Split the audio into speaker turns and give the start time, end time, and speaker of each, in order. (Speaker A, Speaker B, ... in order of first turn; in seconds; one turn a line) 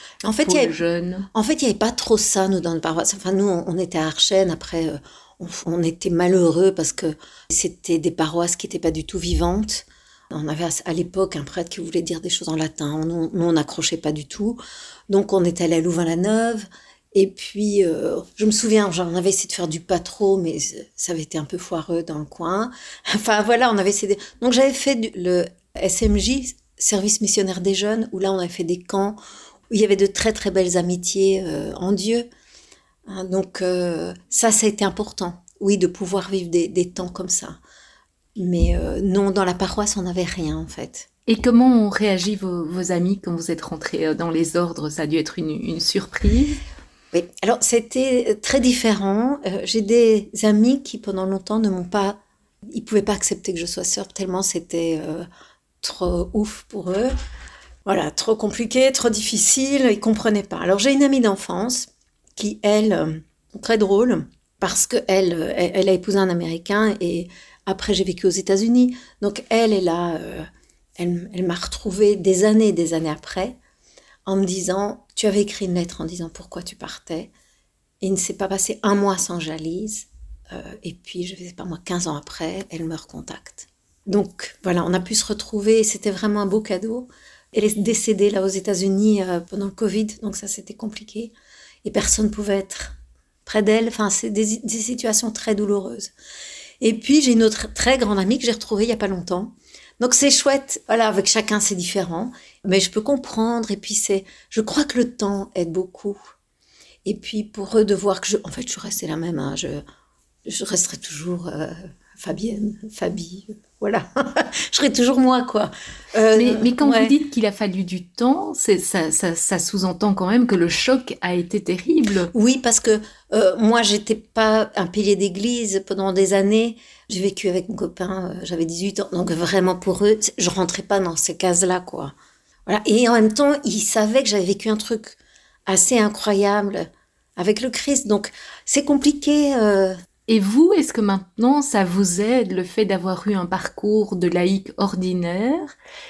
Speaker A: 0.2-0.8
Speaker B: 0.4-1.3
Speaker A: 1.3-29.2
Speaker A: 29.7-32.3
Speaker A: 33.1-37.6
Speaker A: 38.4-41.1
Speaker B: 41.3-46.6
Speaker A: 47.1-55.3
Speaker A: 55.8-57.1
Speaker A: 57.9-73.6
Speaker A: 74.2-77.3
Speaker A: 78.0-91.3
Speaker A: 91.8-96.1
Speaker A: 96.8-106.2
Speaker A: 107.0-109.8
Speaker A: 110.5-117.1
Speaker B: 116.3-122.3
Speaker A: 122.3-132.1
Speaker A: 132.7-140.0
Speaker B: 140.3-145.7